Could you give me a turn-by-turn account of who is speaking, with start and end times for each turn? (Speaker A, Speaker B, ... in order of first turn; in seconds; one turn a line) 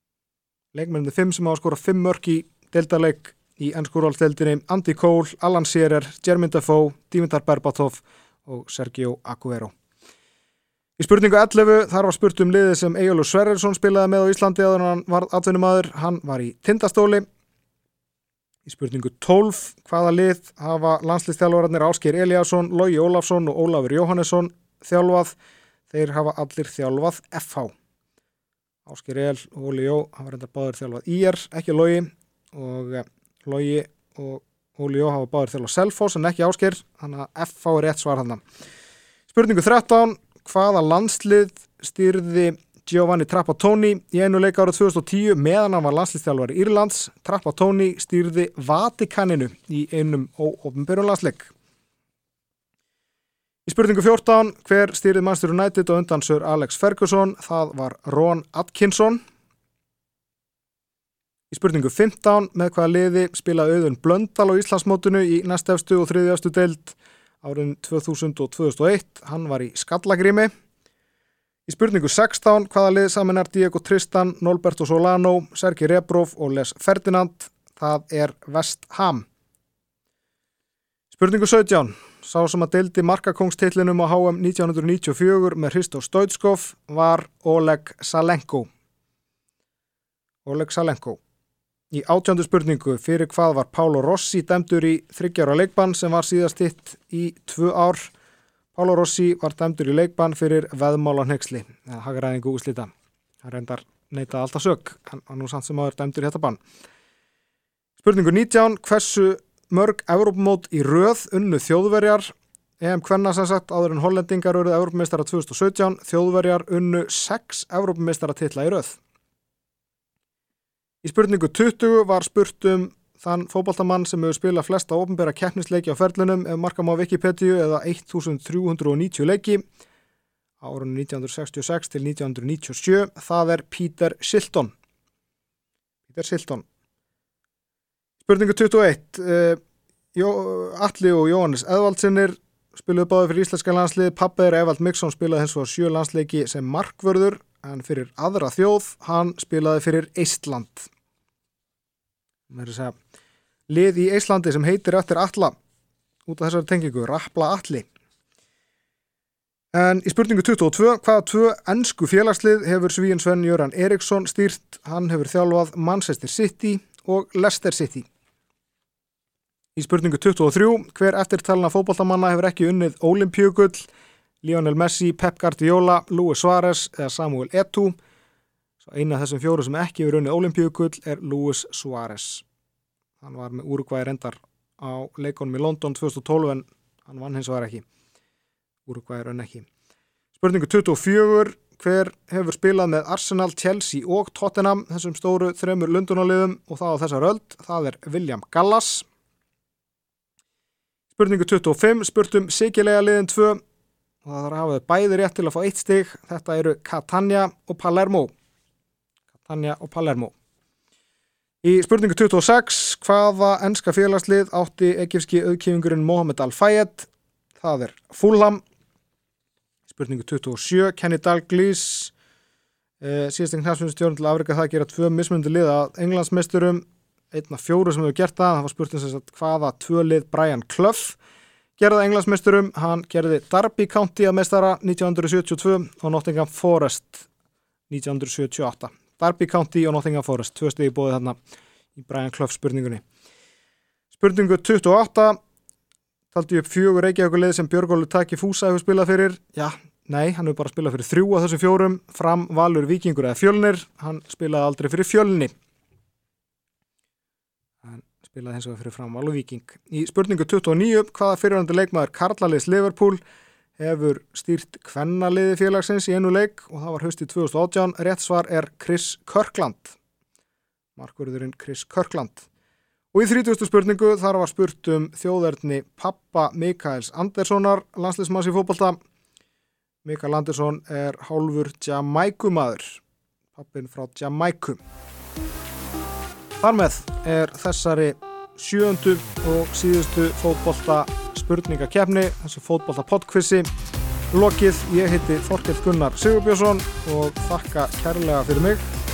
Speaker A: 0.7-9.7
Speaker A: 11.0-17.3
Speaker A: 18.7-25.4
Speaker A: 25.9-27.7
Speaker A: 28.9-38.4
Speaker A: 39.3-51.5
Speaker A: 53.7-59.2
Speaker A: 61.5-70.5
Speaker A: 71.7-79.3
Speaker A: 81.1-88.7
Speaker A: 90.5-91.2
Speaker A: 91.9-98.1
Speaker A: 98.7-102.9
Speaker A: 103.4-106.6
Speaker A: 108.0-119.0
Speaker A: 121.0-129.6
Speaker A: 130.6-134.7
Speaker A: 136.1-136.7
Speaker A: 138.2-139.6
Speaker A: 140.1-150.9
Speaker A: 152.5-153.0
Speaker A: 153.7-155.5
Speaker A: 156.3-157.9
Speaker A: 159.7-168.1
Speaker A: 169.8-173.9
Speaker A: 174.4-178.0
Speaker A: 178.8-182.4
Speaker A: 183.2-187.8
Speaker A: 188.9-189.7
Speaker A: 190.4-199.1
Speaker A: 201.1-203.6
Speaker A: 204.2-208.3
Speaker A: 209.4-210.3
Speaker A: 211.6-218.6
Speaker A: 219.9-222.1
Speaker A: 223.0-231.2
Speaker A: 231.8-237.3
Speaker A: 237.9-241.4
Speaker A: 241.9-243.0
Speaker A: 244.1-245.4
Speaker A: 246.3-255.5
Speaker A: 257.8-263.2
Speaker A: 263.8-270.0
Speaker A: 271.0-272.5
Speaker A: 273.1-279.0
Speaker A: 280.0-283.0
Speaker A: 283.5-284.8
Speaker A: 286.6-293.7
Speaker A: 294.3-298.9